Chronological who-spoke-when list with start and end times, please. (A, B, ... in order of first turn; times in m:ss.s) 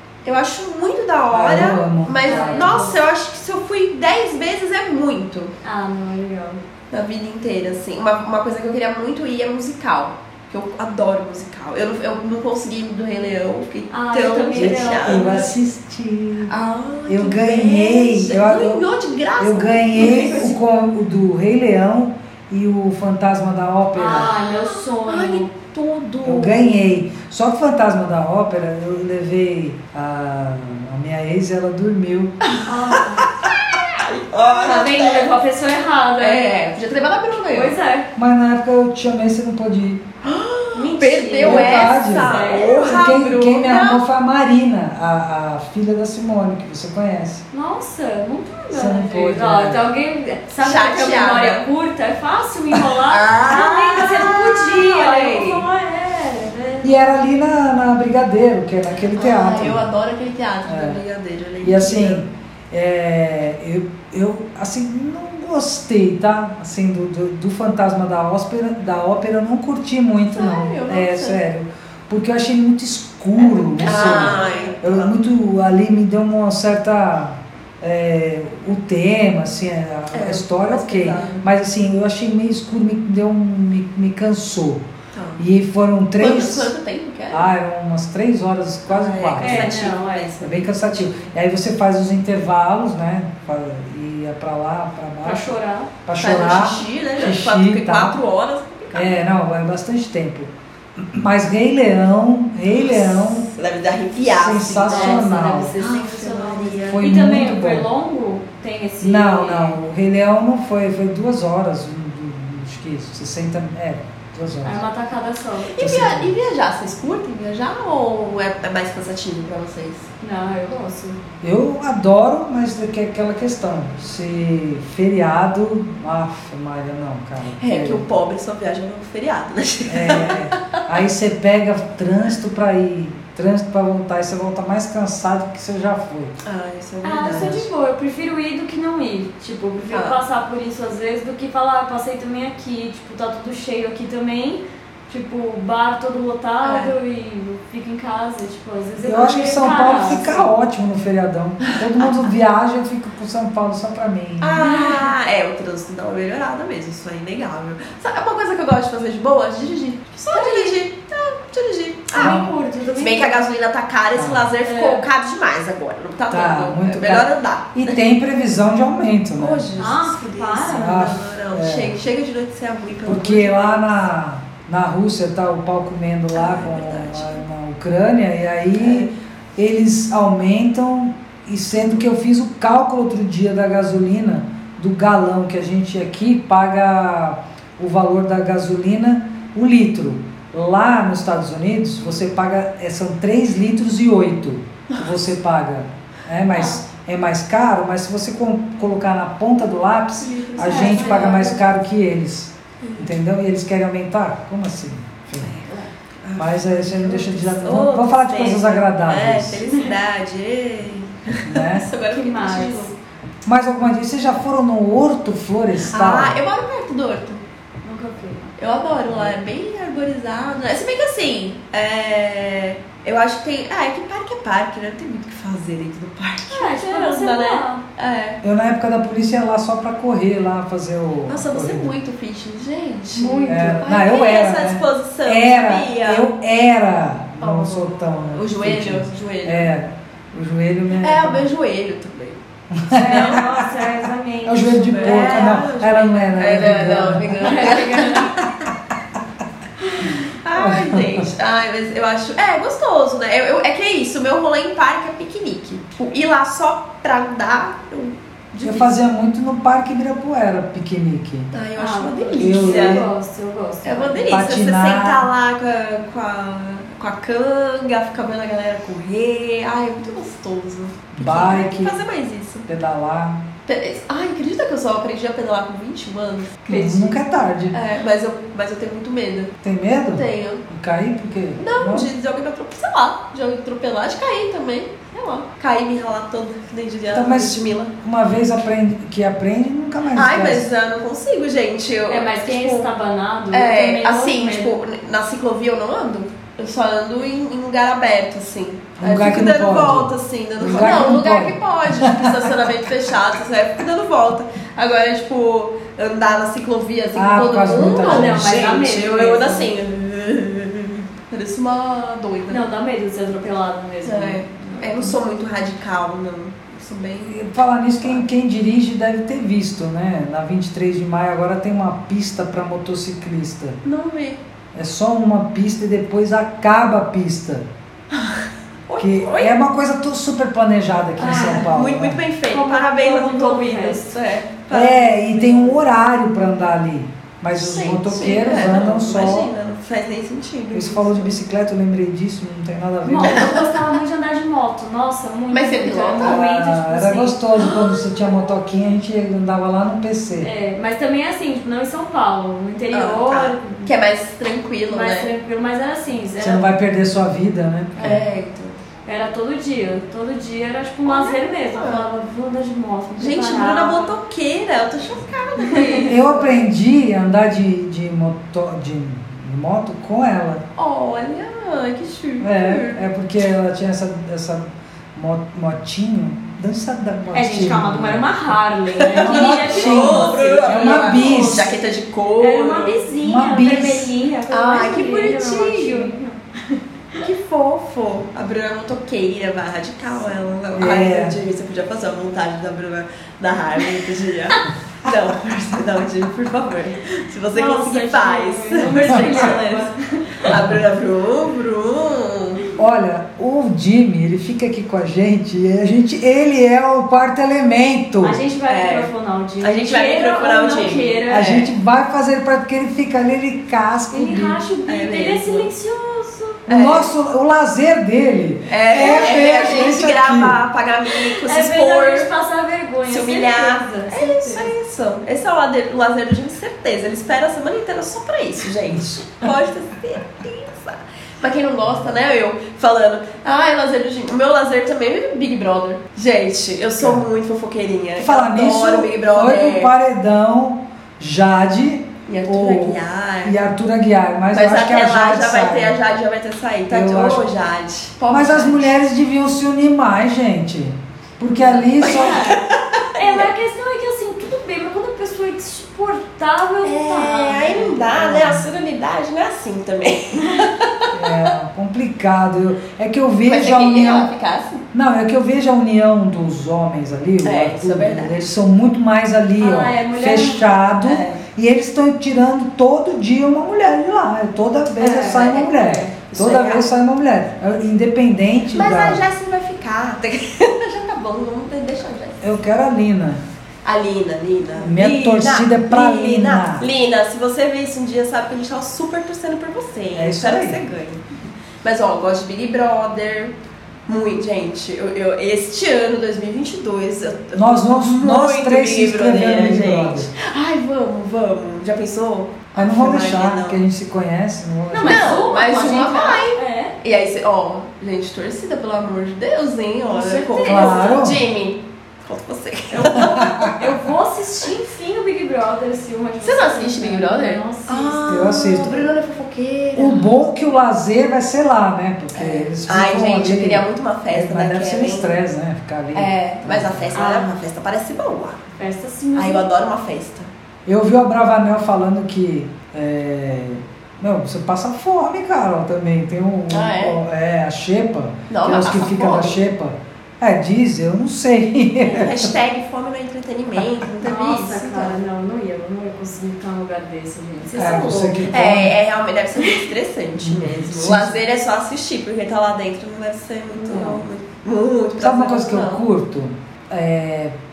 0:00.2-0:05.5 A
0:01.3-0:02.8 B
0:02.3-0:03.0 C
0:05.6-0:06.6 C
0:06.9-0:15.6 A
0:13.9-0:15.6 C
0:14.5-0:16.5 B
0:16.5-0:20.6 A
0:17.1-0:18.8 B
0:19.4-0:24.3 B
0:24.0-0:25.5 C
0:24.1-0:26.7 A
0:26.2-0:32.4 B
0:32.6-0:33.3 C
0:33.4-0:35.3 A
0:34.5-0:36.6 C
0:36.2-0:37.8 A
0:37.5-0:38.1 C
0:38.2-0:40.0 B
0:40.2-0:44.0 A
0:40.7-0:42.8 C
0:41.4-0:47.4 B
0:47.5-0:56.9 C
0:48.7-0:49.9 B
0:50.6-0:51.7 A
0:53.0-0:55.7 A
0:56.8-0:59.8 B
0:59.1-1:02.2 A
1:00.7-1:01.0 B
1:01.6-1:24.8 B
1:10.3-1:11.4 A
1:13.5-1:15.2 A
1:13.6-1:14.8 C
1:20.1-1:21.4 A
1:25.1-1:25.4 A
1:25.4-1:26.7 B
1:26.2-1:27.5 A
1:27.3-1:29.8 B
1:28.9-1:31.2 A
1:29.4-1:30.4 C
1:30.4-1:38.2 B
1:35.2-1:35.9 C
1:36.2-1:39.2 A
1:38.9-1:43.5 B
1:42.7-1:47.0 A
1:44.2-1:45.7 B
1:44.9-1:49.8 C
1:46.9-1:47.9 B
1:49.0-1:54.8 B
1:54.6-1:55.8 C
1:55.7-2:00.1 A
1:55.8-1:56.4 B
2:00.2-2:01.2 C
2:01.4-2:08.0 B
2:07.6-2:10.8 A
2:09.9-2:16.4 B
2:16.4-2:17.7 A
2:17.0-2:30.5 C
2:17.3-2:17.6 B
2:19.9-2:20.2 A
2:26.6-2:26.9 A
2:29.0-2:34.6 B
2:29.9-2:30.2 A
2:31.7-2:32.1 A
2:34.4-2:42.4 A
2:34.6-2:35.1 C
2:40.3-2:40.8 C
2:42.1-2:43.4 C
2:42.2-2:42.5 B
2:43.0-2:48.0 A
2:44.2-2:44.5 B
2:44.6-2:45.0 C
2:46.3-2:49.6 B
2:49.4-2:53.8 A
2:49.8-2:51.1 C
2:50.7-2:52.0 B
2:53.0-3:25.5 B
2:56.3-2:57.4 A
2:58.8-2:59.1 A
3:16.5-3:16.8 C
3:20.4-3:21.5 A
3:20.5-3:21.6 C
3:22.8-3:23.2 A
3:25.4-3:33.0 A
3:26.4-3:29.6 B
3:31.4-3:31.9 B
3:32.1-3:32.9 C
3:33.5-3:36.4 B
3:35.8-3:37.4 A
3:37.8-3:38.6 C
3:38.6-3:48.4 A
3:46.5-3:47.8 C
3:48.4-3:51.9 B
3:51.3-3:56.3 A
3:53.2-3:53.8 C
3:53.5-4:01.5 B
3:57.4-3:59.7 A
4:01.0-4:02.4 A
4:02.7-4:03.6 B
4:02.9-4:05.5 C
4:03.0-4:03.4 A
4:04.5-4:07.7 B
4:04.9-4:08.4 A
4:07.4-4:08.3 C
4:10.0-4:19.0 A
4:10.6-4:11.3 B
4:18.6-4:21.5 B
4:21.5-4:23.1 A
4:21.8-4:24.4 C
4:22.4-4:23.1 B
4:23.8-4:32.7 A
4:24.3-4:25.3 B
4:31.2-4:32.0 B
4:32.7-4:33.5 B
4:33.7-4:37.1 A
4:36.7-4:37.8 B
4:37.7-4:39.6 A
4:39.6-4:42.1 B
4:40.1-4:40.6 A
4:41.6-4:47.9 A
4:47.1-4:50.7 B
4:50.1-4:52.9 A
4:52.1-4:54.8 C
4:53.5-5:12.6 A
4:59.0-5:02.5 B
5:07.2-5:08.7 B
5:08.0-5:09.7 C
5:12.5-5:15.2 C
5:14.0-5:17.5 A
5:17.3-5:23.8 B
5:23.8-5:24.4 A
5:24.8-5:27.7 B
5:28.1-5:29.5 A
5:29.0-5:32.2 B
5:31.2-5:31.7 C
5:31.2-5:35.8 A
5:32.5-5:34.2 C
5:34.7-5:39.5 B
5:37.5-5:41.3 A
5:40.7-5:43.6 B
5:43.0-5:47.4 C
5:43.3-5:43.6 A
5:45.5-5:46.4 A
5:46.2-5:50.5 B
5:47.6-5:48.1 A
5:50.4-5:53.9 C
5:52.9-5:55.3 A
5:54.9-5:56.7 C
5:56.4-5:58.2 B
5:58.0-5:58.8 A
5:59.1-6:04.1 C
6:01.0-6:02.1 A
6:03.2-6:06.6 A
6:05.6-6:06.1 C
6:06.1-6:10.6 B
6:10.8-6:13.0 A
6:12.4-6:18.3 B
6:17.3-6:21.8 C
6:19.0-6:23.0 A
6:19.1-6:21.7 B
6:22.4-6:27.2 C
6:23.2-6:24.1 B
6:24.5-6:26.1 A
6:27.2-6:42.6 A
6:30.7-6:31.4 B
6:37.5-6:40.5 C
6:40.5-6:40.8 B
6:42.8-6:48.4 B
6:48.2-6:51.6 C
6:48.7-6:49.1 A
6:49.6-6:51.7 A
6:51.3-6:54.6 B
6:54.1-6:56.6 C
6:54.9-6:55.7 A
6:56.7-6:57.1 A
6:56.7-7:00.6 B
6:58.7-7:02.3 A
6:59.0-6:59.7 C
7:01.3-7:04.7 C
7:03.1-7:19.9 A
7:08.9-7:09.5 B
7:17.0-7:17.3 B
7:18.2-7:26.0 B
7:22.3-7:23.6 A
7:24.5-7:28.9 A
7:26.9-7:27.4 B
7:28.3-7:32.5 B
7:31.6-7:32.6 C
7:32.0-7:33.5 A
7:33.2-7:38.3 C
7:36.8-7:41.5 A
7:38.3-7:38.6 B
7:41.1-7:44.3 B
7:43.4-7:44.8 A
7:44.9-7:59.2 B
7:47.4-7:48.4 A
7:49.6-7:50.7 C
7:51.0-7:51.4 A
7:55.0-7:56.2 C
7:56.3-7:56.9 A
7:58.7-8:02.5 A
8:02.4-8:03.4 B
8:03.8-8:11.2 A
8:04.8-8:06.9 B
8:10.1-8:10.8 B
8:11.8-8:13.5 A
8:14.1-8:23.8 A
8:17.6-8:20.3 B
8:22.8-8:25.4 B
8:24.9-8:26.9 C
8:25.0-8:33.8 A
8:30.1-8:31.3 C
8:30.7-8:31.4 B
8:33.2-8:33.7 B
8:33.8-8:38.2 C
8:36.4-8:40.3 A
8:38.3-8:39.1 B
8:40.0-8:47.1 B
8:42.3-8:45.3 A
8:46.2-8:48.6 A
8:47.1-8:47.5 C
8:48.8-8:49.7 C
8:49.4-8:50.5 A
8:50.9-9:02.5 B
8:56.7-8:57.2 A
8:58.5-8:59.6 A
9:02.1-9:05.2 A
9:04.2-9:08.4 C
9:07.7-9:16.0 A
9:07.8-9:09.0 B
9:10.4-9:11.4 B
9:13.7-9:14.2 C
9:15.2-9:17.5 B